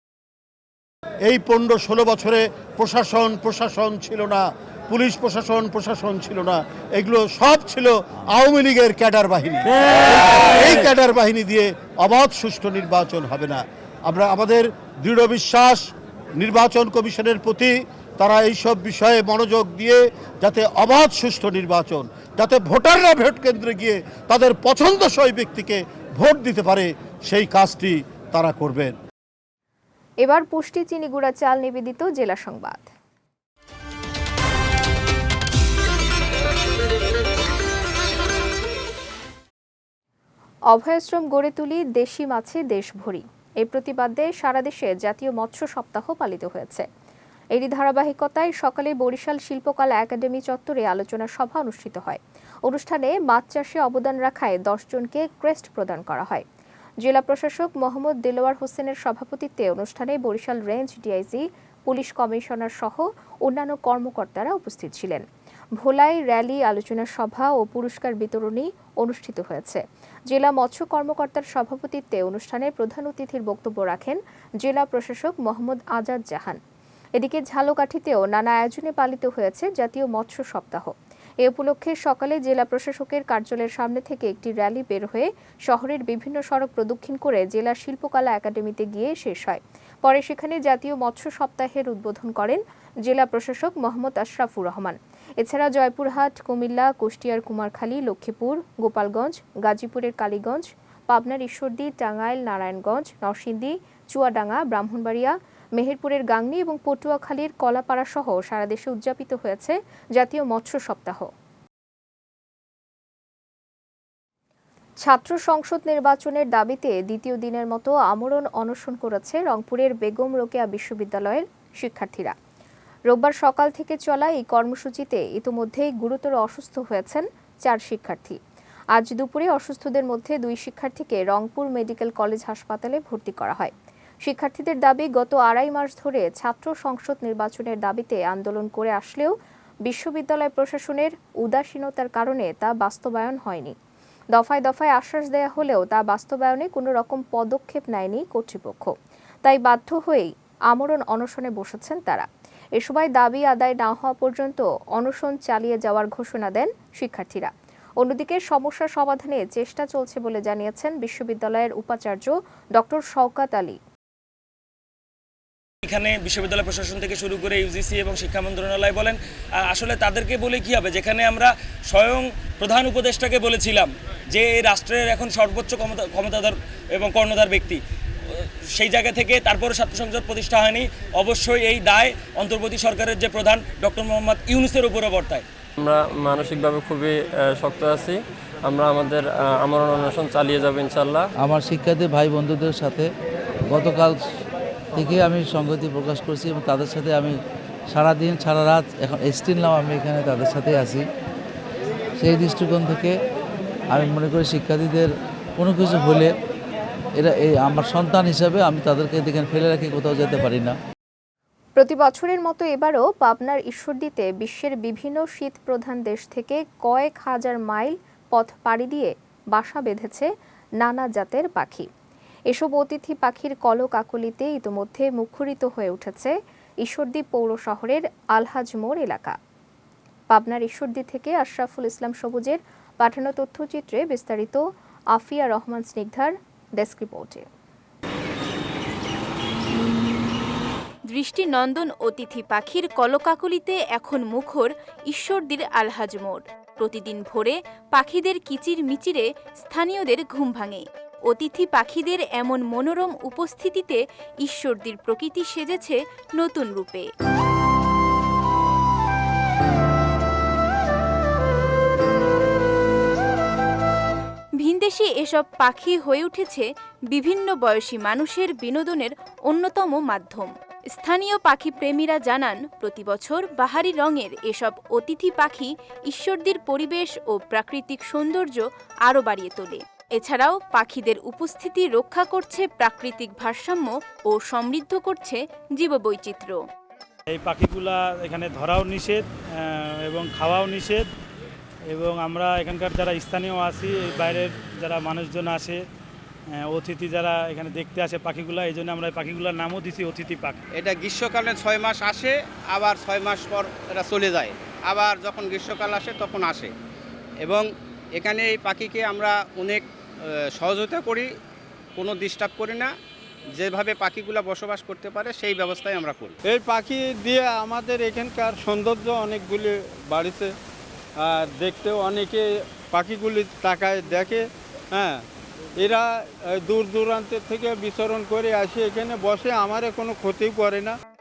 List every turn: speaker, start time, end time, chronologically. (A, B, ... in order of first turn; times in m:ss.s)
0:01.3-0:28.9 A
0:30.2-0:32.9 B
0:40.7-0:46.8 B
0:47.5-0:56.4 B
0:57.0-1:05.2 B
1:05.8-1:16.6 B
1:17.2-1:51.3 B
1:55.0-2:02.3 B
2:03.1-2:08.4 B
2:08.9-2:13.7 B
2:14.2-2:19.3 B
2:19.8-2:23.7 B
2:24.3-2:28.9 B
2:29.4-2:32.2 B
2:32.8-2:43.8 B
2:45.8-2:57.8 C
2:58.7-3:05.4 C
3:05.8-3:11.3 D
3:11.4-3:13.0 E
3:13.7-3:14.1 E
3:15.0-3:17.3 E
3:16.4-3:17.2 D
3:17.9-3:21.0 E
3:18.0-3:18.6 D
3:19.4-3:20.9 D
3:22.2-3:23.1 E
3:22.3-3:22.8 D
3:23.9-3:25.0 E
3:24.4-3:24.8 D
3:25.6-3:26.2 E
3:27.2-3:30.7 E
3:31.8-3:40.3 B
3:40.8-3:41.9 B
3:42.5-3:49.3 B
3:50.3-3:54.6 B
3:55.1-3:57.4 B
4:01.1-4:17.1 F
4:24.6-4:46.6 F
4:47.3-4:49.2 G
4:50.0-4:51.0 G
4:51.9-4:55.8 G
4:56.6-5:00.6 G
5:00.7-5:06.7 H
5:07.4-5:07.7 H
5:08.2-5:09.8 H
5:10.6-5:11.3 H
5:12.0-5:12.9 H
5:13.6-5:16.3 H
5:16.4-5:20.5 I
5:21.3-5:22.4 I
5:22.9-5:24.4 I
5:26.6-5:30.9 I